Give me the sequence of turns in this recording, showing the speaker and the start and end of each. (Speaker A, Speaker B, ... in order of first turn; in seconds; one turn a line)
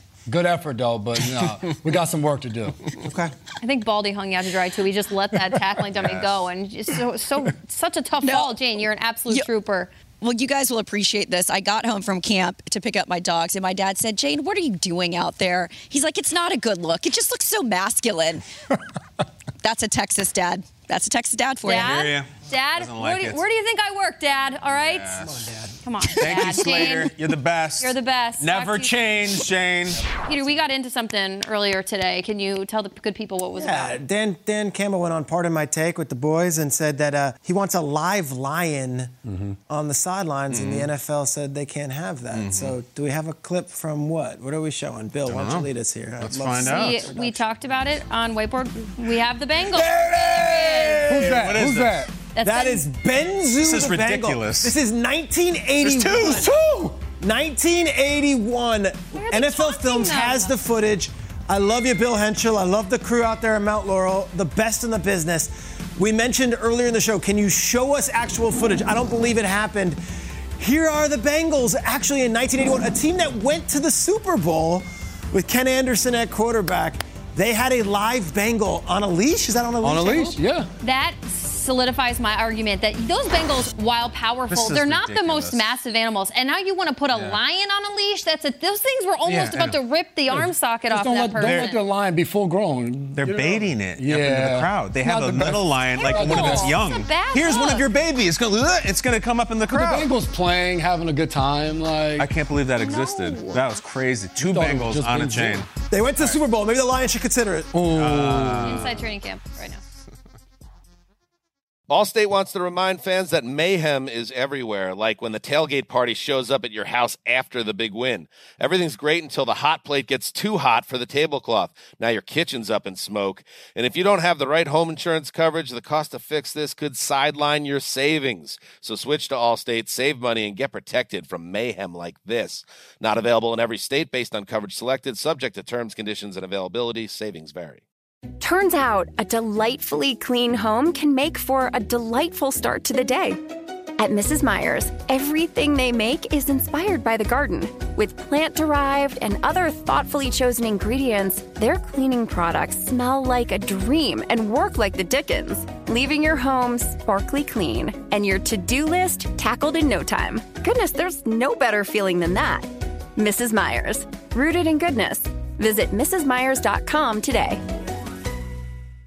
Speaker A: 0.3-2.8
Speaker B: 3.0-3.3
Speaker C: 3.6-9.9
Speaker D: 6.0-6.3
Speaker E: 8.2-8.5
Speaker E: 10.2-18.4
Speaker E: 19.6-21.9
Speaker C: 21.6-25.2
Speaker D: 21.7-23.4
Speaker D: 24.7-25.4
Speaker B: 25.2-25.8
Speaker C: 25.8-27.2
Speaker D: 26.1-30.0
Speaker C: 27.8-29.2
Speaker C: 30.2-34.0
Speaker B: 33.6-39.2
Speaker A: 39.3-39.5
Speaker B: 39.7-47.5
Speaker D: 40.5-40.9
Speaker D: 42.3-42.8
Speaker D: 45.3-47.1
Speaker C: 46.6-51.3
Speaker D: 49.7-52.1
Speaker A: 51.1-52.1
Speaker C: 52.3-52.8
Speaker B: 52.4-56.5
Speaker D: 53.6-54.8
Speaker D: 55.8-56.5
Speaker A: 56.5-56.8
Speaker B: 57.2-70.0
Speaker C: 59.1-60.6
Speaker B: 70.6-80.4
Speaker A: 79.8-80.7
Speaker C: 80.8-91.8
Speaker D: 84.5-85.7
Speaker D: 87.1-87.4
Speaker D: 89.3-89.8
Speaker A: 90.3-96.8
Speaker D: 93.2-100.1
Speaker C: 96.0-97.9
Speaker A: 99.7-102.3
Speaker D: 102.2-106.4
Speaker C: 102.8-103.6
Speaker A: 104.4-105.7
Speaker B: 105.9-107.8
Speaker A: 107.7-108.7
Speaker D: 107.9-109.0
Speaker C: 108.6-109.8
Speaker F: 111.9-137.8
Speaker G: 138.4-143.4
Speaker G: 144.0-167.6